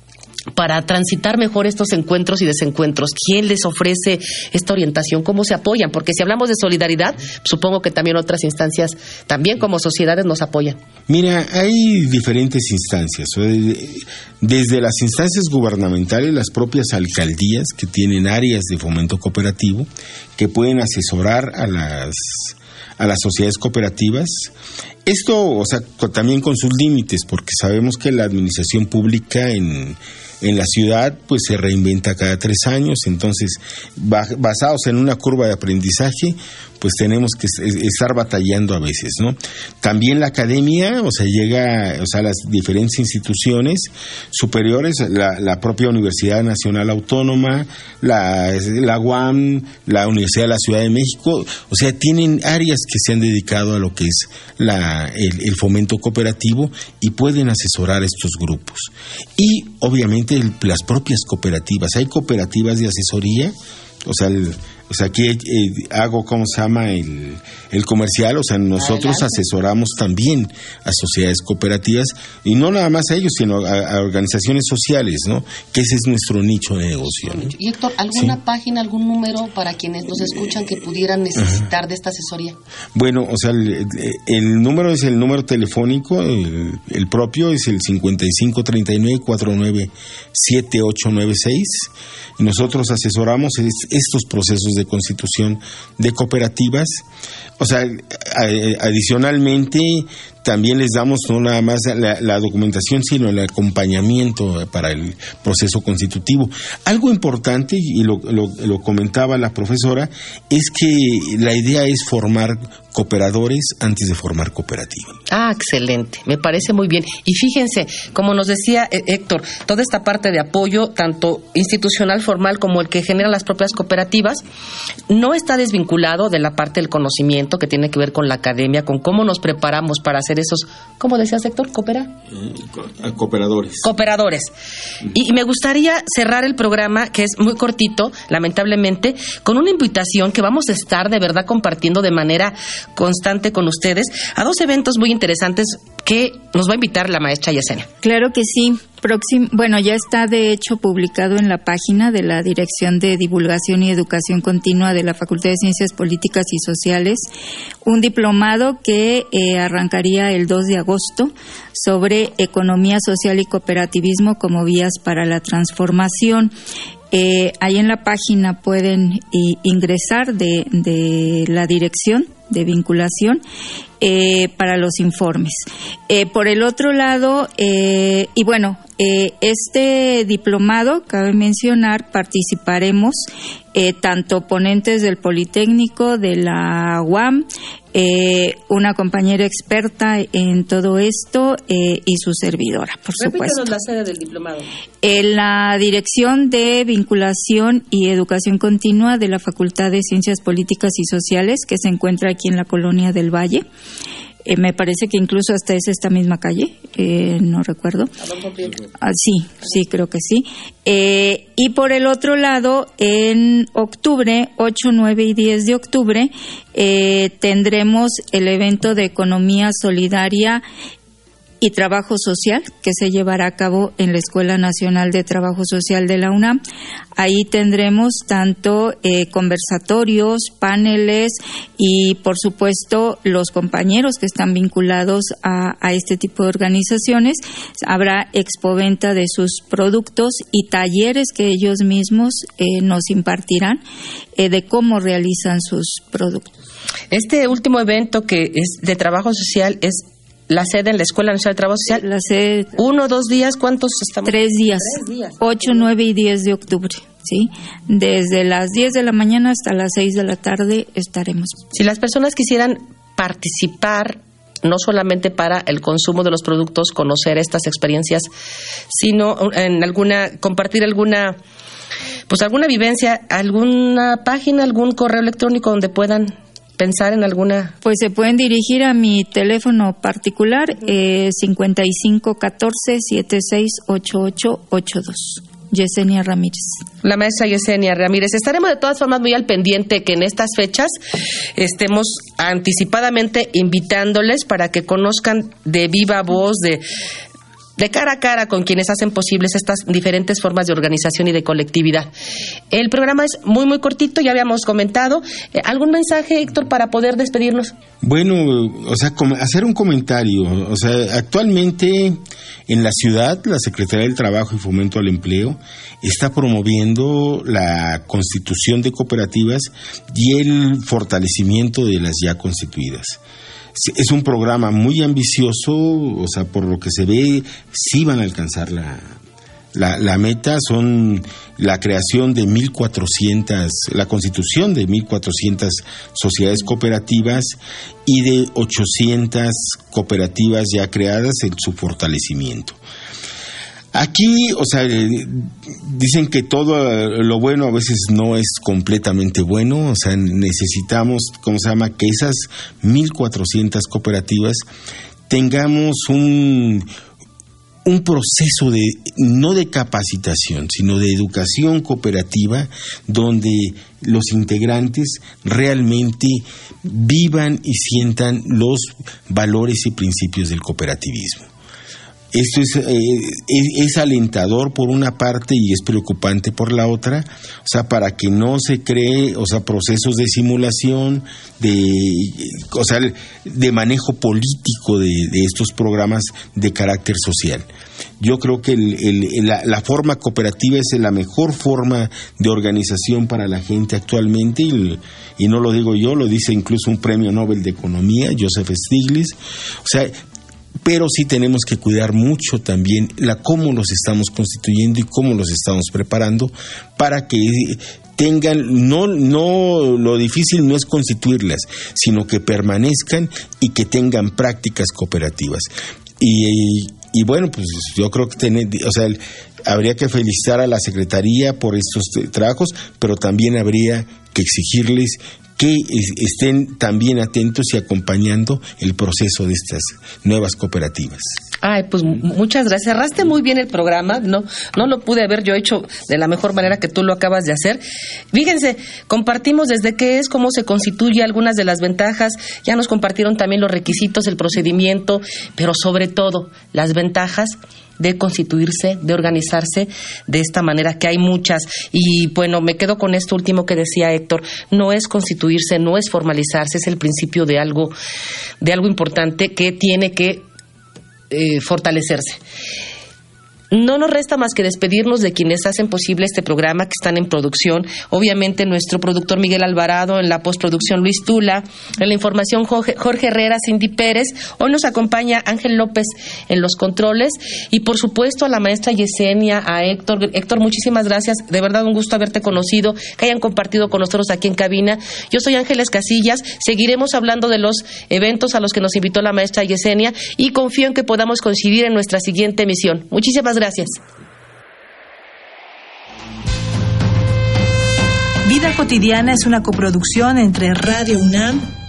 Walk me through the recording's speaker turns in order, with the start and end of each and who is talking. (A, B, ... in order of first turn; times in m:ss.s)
0:00.6-0:10.8 A
0:11.1-0:24.5 B
0:25.1-1:17.5 B
1:08.8-1:09.3 A
1:17.2-1:22.6 A
1:23.0-1:37.0 B
1:37.6-1:55.2 B
1:55.3-2:04.4 A
2:05.1-2:12.1 A
2:12.3-2:13.9 B
2:13.8-2:14.5 A
2:15.1-2:27.9 A
2:28.0-2:37.3 C
2:37.8-2:46.5 C
2:47.1-2:53.4 C
2:54.0-3:13.7 C
3:13.2-3:14.7 A
3:15.0-3:23.6 C
3:24.5-3:28.1 C
3:28.2-3:28.8 A
3:29.0-3:40.6 C
3:41.6-3:46.6 C
3:47.2-4:03.8 C
4:04.4-4:06.5 C
4:07.1-4:12.0 A
4:12.0-4:12.8 C
4:12.8-4:15.5 A
4:14.2-4:21.6 C
4:21.7-4:28.3 A
4:28.9-4:31.4 A
4:32.3-4:37.8 A
4:37.8-4:46.8 C
4:47.0-4:51.0 A
4:51.6-4:56.8 A
4:57.8-5:02.1 A
5:02.7-5:07.7 A
5:08.0-5:23.2 B
5:23.8-5:29.2 B
5:29.7-5:42.8 B
5:43.9-5:54.6 B
5:55.3-5:56.9 B
5:57.8-6:11.5 B
6:12.3-6:27.7 B
6:28.2-6:40.1 B
6:40.8-7:11.4 B
7:11.6-7:37.9 A
7:38.6-7:40.4 A
7:41.3-7:42.4 A
7:43.7-8:14.0 A
8:18.4-8:21.7 D